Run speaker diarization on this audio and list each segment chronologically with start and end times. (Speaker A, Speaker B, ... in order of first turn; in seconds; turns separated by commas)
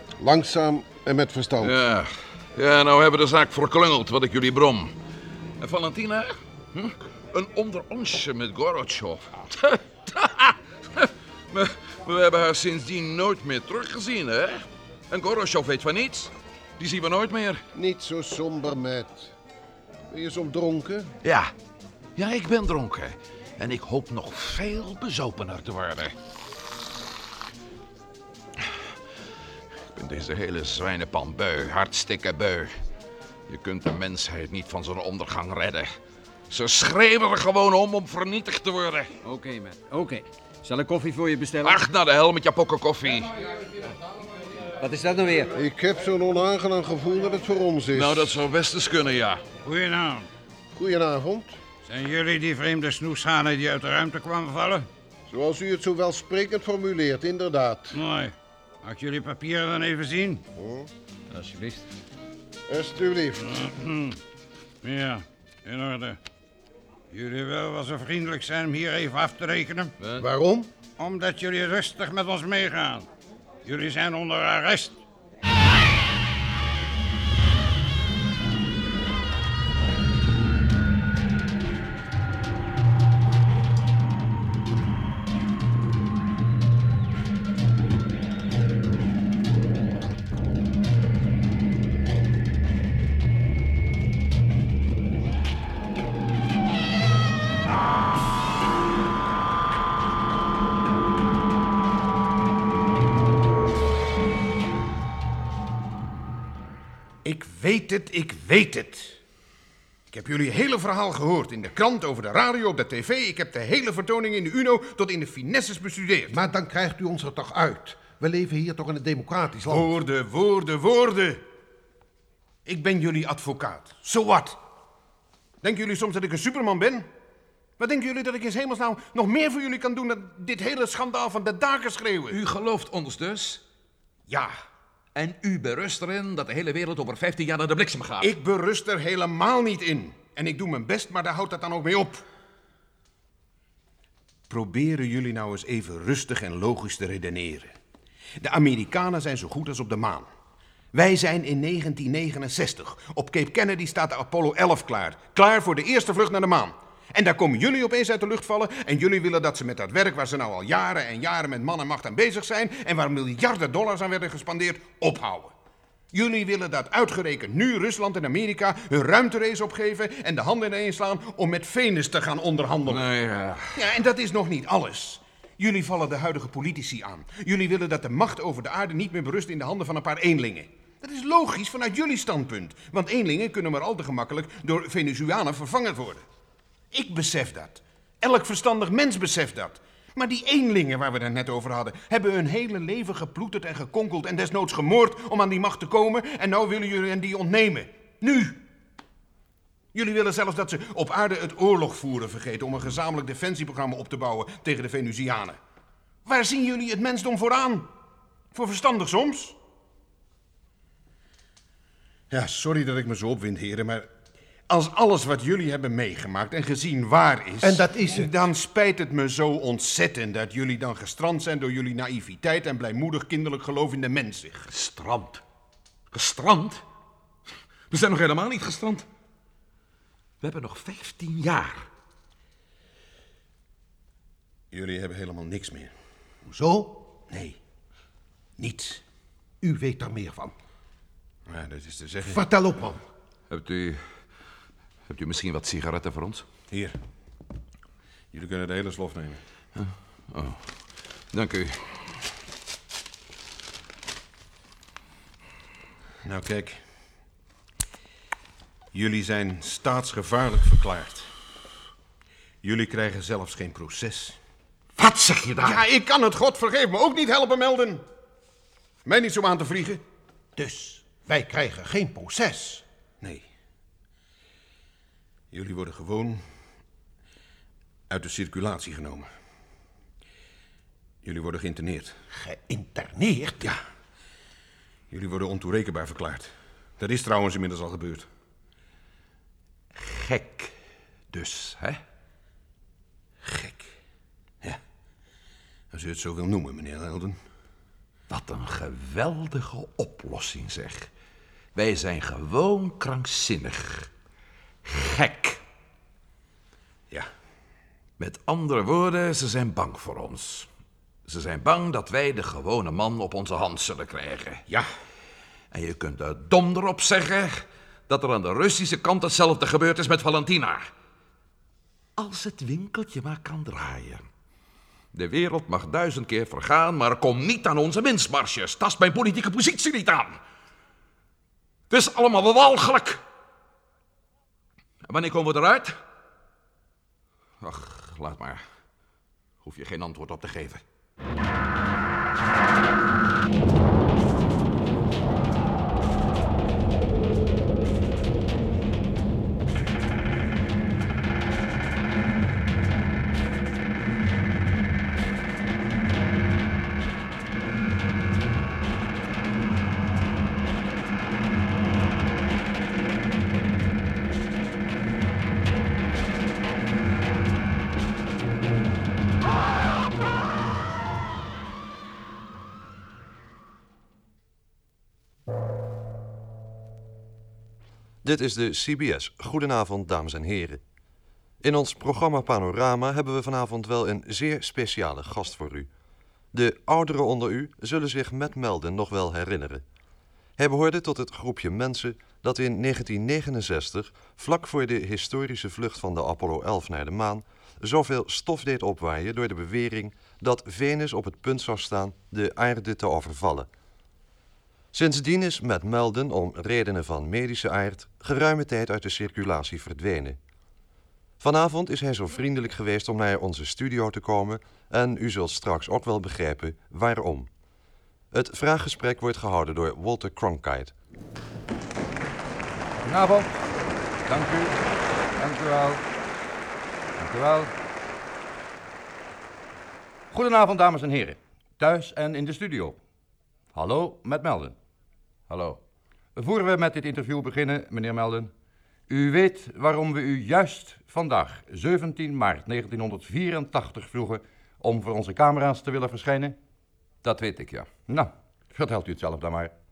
Speaker A: 0.2-1.8, Speaker B: 1.6-4.9, Speaker B: 5.6-17.6, Speaker A: 17.7-19.3, Speaker A: 20.1-21.1, Speaker B: 21.2-21.5, Speaker B: 22.2-26.1, Speaker B: 29.9-32.7, Speaker B: 33.5-35.9, Speaker B: 36.5-39.1, Speaker C: 39.2-41.9, Speaker B: 41.6-43.3, Speaker C: 44.8-45.5, Speaker A: 45.5-48.4, Speaker B: 47.9-49.4, Speaker D: 49.7-50.3, Speaker A: 50.7-51.6, Speaker D: 51.9-54.9, Speaker A: 55.3-58.0, Speaker D: 58.0-58.3, Speaker D: 58.8-60.4, Speaker A: 60.5-60.9, Speaker C: 61.3-61.8, Speaker A: 62.7-63.5, Speaker D: 63.6-64.1, Speaker D: 64.8-66.2, Speaker D: 67.1-69.9, Speaker B: 70.0-70.3, Speaker A: 70.2-70.7, Speaker D: 71.0-73.1, Speaker D: 73.7-75.0, Speaker E: 107.2-109.2, Speaker E: 110.1-116.4, Speaker A: 116.3-119.9, Speaker E: 119.7-121.4, Speaker E: 122.7-124.6, Speaker E: 125.6-127.1, Speaker E: 127.8-132.4, Speaker B: 132.3-133.6, Speaker B: 135.2-138.3, Speaker E: 138.2-142.2, Speaker E: 144.5-147.8, Speaker E: 148.4-150.3, Speaker E: 150.9-165.5, Speaker E: 166.1-173.1, Speaker B: 172.9-173.9, Speaker E: 173.8-186.2, Speaker E: 186.9-198.6, Speaker E: 199.9-205.6, Speaker E: 206.2-207.9, Speaker E: 208.5-209.6, Speaker E: 212.3-214.1, Speaker E: 214.7-224.7, Speaker A: 217.6-218.3, Speaker B: 224.7-225.4, Speaker B: 226.1-226.8, Speaker B: 227.9-229.1, Speaker B: 230.4-231.9, Speaker E: 234.7-235.9, Speaker A: 236.5-237.1, Speaker E: 237.3-237.6, Speaker E: 238.6-239.0, Speaker A: 239.6-240.6, Speaker E: 241.5-242.4, Speaker A: 242.3-243.0, Speaker B: 243.5-244.2, Speaker B: 245.1-246.4, Speaker E: 246.7-247.0, Speaker E: 248.3-249.4, Speaker B: 249.8-250.7, Speaker B: 251.3-252.1, Speaker E: 256.2-256.8, Speaker E: 258.9-261.3, Speaker E: 262.6-264.4, Speaker B: 265.0-265.7, Speaker E: 265.6-268.0, Speaker E: 269.1-270.0, Speaker A: 270.6-272.8, Speaker E: 273.2-273.5, Speaker E: 275.5-276.4, Speaker E: 278.1-279.3, Speaker E: 281.2-282.2, Speaker A: 282.3-283.7, Speaker E: 285.1-288.3, Speaker B: 289.9-290.7, Speaker B: 291.3-292.0, Speaker E: 295.9-297.4, Speaker B: 298.3-301.1, Speaker B: 301.8-304.1, Speaker B: 304.9-305.6, Speaker B: 308.2-310.7, Speaker B: 311.3-314.6, Speaker B: 315.7-320.9, Speaker B: 322.2-324.2, Speaker B: 325.1-330.4, Speaker B: 331.9-333.2, Speaker B: 335.1-335.9, Speaker B: 337.6-338.6, Speaker B: 339.6-340.8, Speaker F: 378.2-380.8, Speaker F: 381.6-385.9, Speaker F: 386.5-389.8, Speaker F: 390.6-403.7, Speaker F: 404.9-410.4, Speaker F: 411.4-417.5, Speaker F: 418.3-420.9, Speaker G: 423.1-423.6, Speaker G: 424.3-424.8, Speaker G: 425.4-426.0, Speaker G: 427.2-427.7, Speaker G: 430.3-433.0, Speaker G: 433.7-434.8, Speaker B: 435.5-435.8, Speaker G: 436.4-438.5, Speaker G: 439.1-446.6, Speaker B: 447.2-447.9, Speaker G: 448.1-449.7